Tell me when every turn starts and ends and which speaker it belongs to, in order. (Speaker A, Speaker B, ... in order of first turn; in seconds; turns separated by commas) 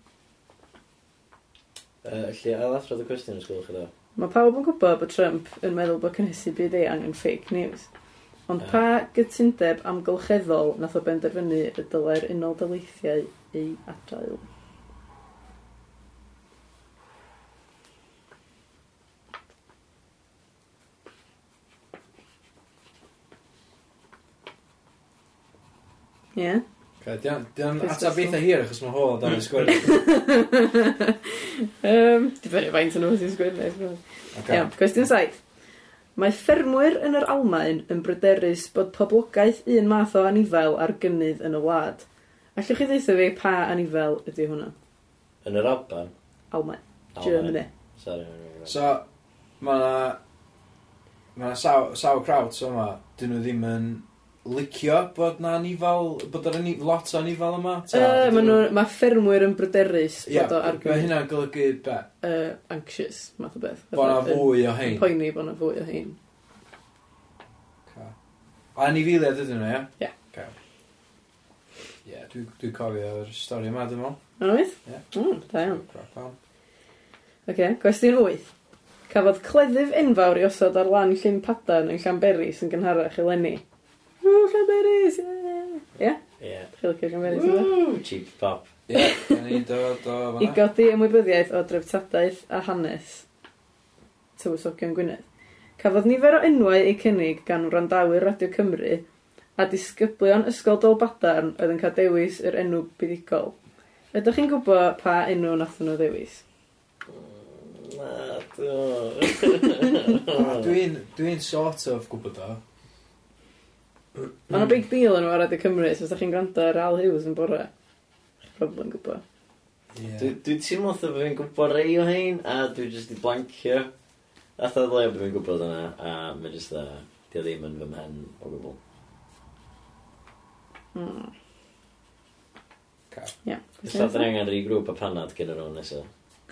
Speaker A: 2.0-3.9, Speaker B: 4.2-7.9, Speaker B: 8.5-14.4, Speaker B: 26.4-26.6, Speaker C: 27.0-30.0, Speaker B: 27.8-28.4, Speaker B: 29.7-35.4, Speaker C: 34.3-34.8, Speaker B: 36.2-44.7, Speaker A: 45.4-46.1, Speaker B: 46.5-47.7, Speaker A: 47.1-48.8, Speaker C: 48.7-49.0, Speaker C: 49.6-50.2, Speaker C: 51.4-58.7, Speaker B: 57.9-61.2, Speaker C: 60.3-62.1, Speaker B: 62.2-66.2, Speaker C: 63.9-65.1, Speaker C: 67.9-68.2, Speaker C: 68.8-70.5, Speaker C: 72.0-74.2, Speaker B: 74.4-75.8, Speaker C: 75.6-76.4, Speaker B: 77.5-78.5, Speaker B: 79.1-83.6, Speaker B: 84.2-86.2, Speaker A: 86.4-86.7, Speaker B: 86.7-87.7, Speaker A: 87.2-88.7, Speaker C: 88.9-90.6, Speaker B: 88.9-89.6, Speaker B: 90.4-93.2, Speaker B: 94.4-95.2, Speaker B: 95.8-99.0, Speaker B: 99.6-103.6, Speaker B: 104.1-106.4, Speaker A: 107.1-110.8, Speaker C: 110.3-112.6, Speaker B: 114.5-117.7, Speaker C: 114.5-114.8, Speaker B: 118.5-119.2, Speaker C: 119.9-120.4, Speaker A: 120.2-123.9, Speaker A: 124.6-128.8, Speaker B: 130.9-131.3, Speaker B: 133.4-134.3, Speaker A: 133.9-136.1